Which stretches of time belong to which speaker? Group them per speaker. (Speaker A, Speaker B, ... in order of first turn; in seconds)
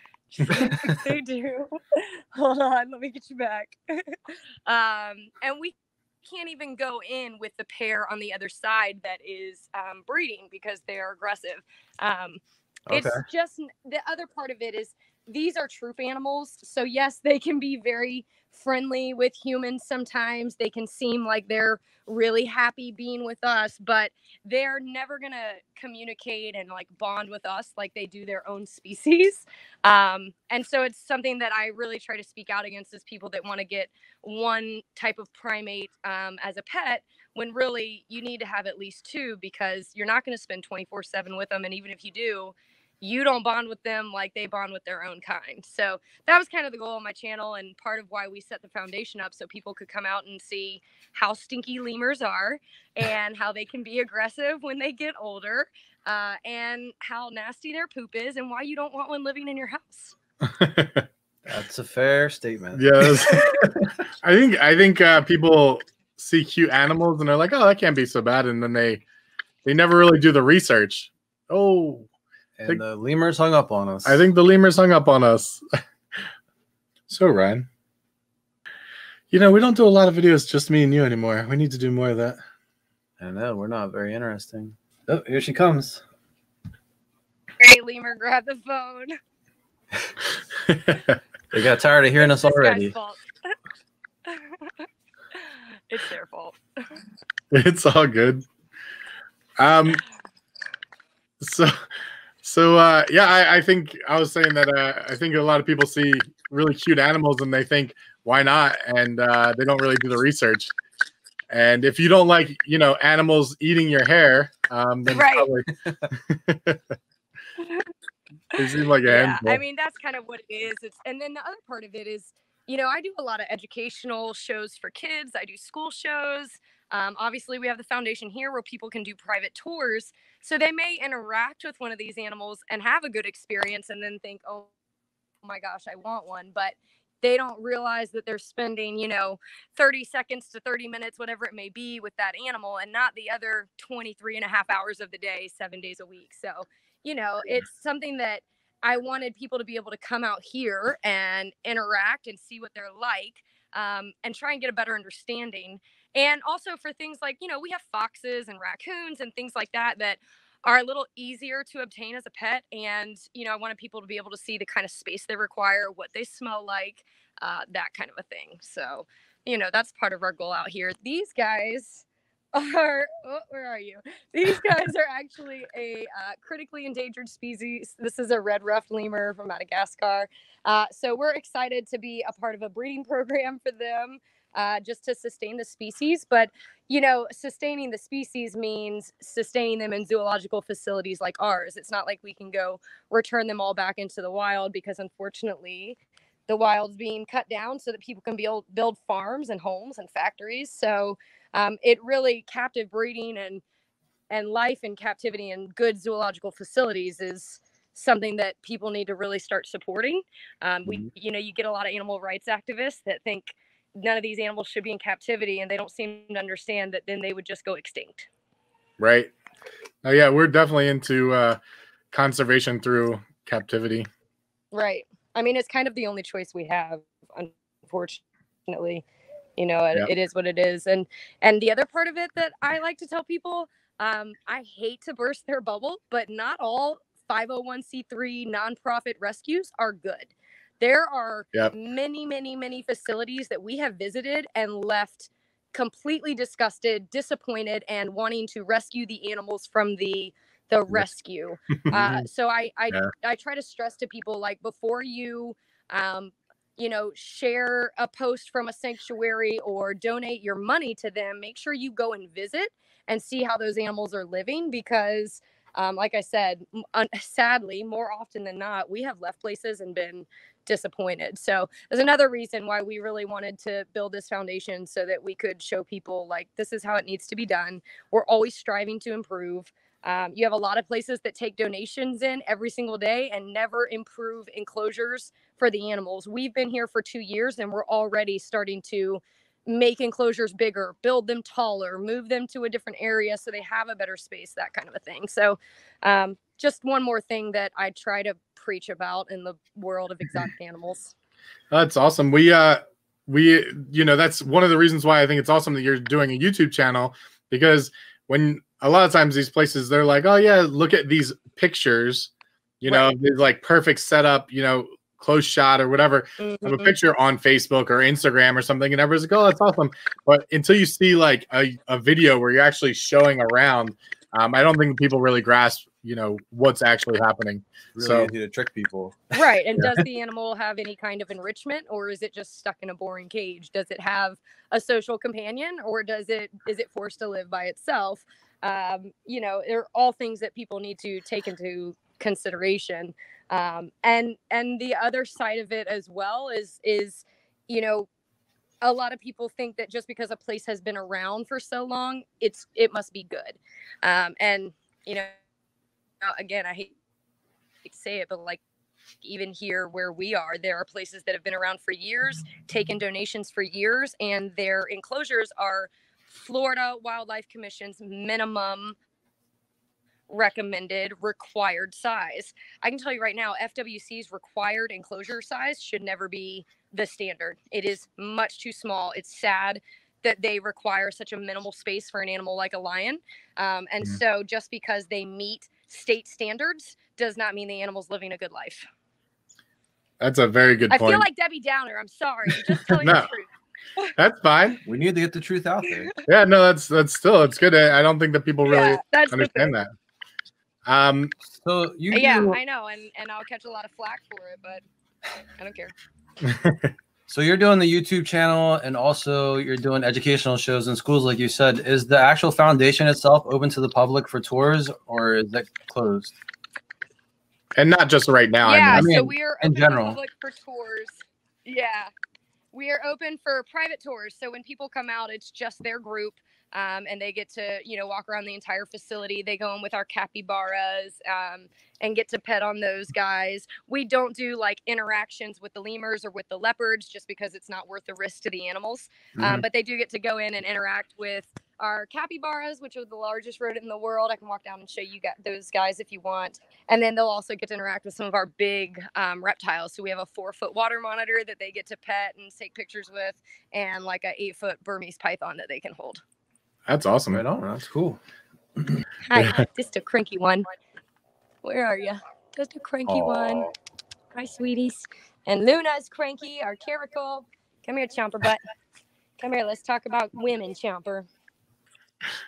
Speaker A: 0.3-60.1, 87.6-89.1, 92.2-93.5, 94.2-94.8, 95.9-96.6, 115.1-115.5, 117.6-117.9, 118.5-134.7, 135.4-203.6, 204.3-218.3, 224.7-229.0, 229.6-301.1, 312.9-313.1, 316.4-316.9, 329.3-348.1, 348.8-355.3, 356.2-356.9, 357.8-358.6, 359.2-368.9, 370.3-388.9, 390.9-394.1, 395.8-396.2, 398.6-399.7, 402.1-404.8, 405.6-405.9, 418.6-422.1, 422.7-456.2, 459.3-460.7, 461.6-463.7, 464.3-468.6, 469.4-471.3
Speaker B: 0.5-1.0, 12.9-13.2, 61.5-63.8, 72.6-74.2, 83.2-86.0, 91.5-92.9, 115.7-116.1, 251.9-252.2, 327.9-330.0, 394.8-396.1, 401.4-402.6, 407.3-416.3, 418.9-420.2, 439.4-439.6, 457.3-458.2, 458.8-459.0, 463.1-463.7
Speaker C: 60.4-61.1, 62.8-63.6, 64.2-69.0, 69.6-72.1, 74.0-75.6, 77.1-77.7, 79.3-82.4, 90.7-91.2, 97.5-98.4, 99.6-100.0, 101.4-101.7, 102.4-110.7, 111.5-116.8, 118.5-119.6, 219.0-219.3, 220.0-221.6, 222.1-224.1, 301.7-328.3, 390.2-391.2, 393.0-393.3, 394.2-394.8, 396.2-399.9, 400.9-401.3, 406.4-406.9, 417.8-419.1, 456.9-457.4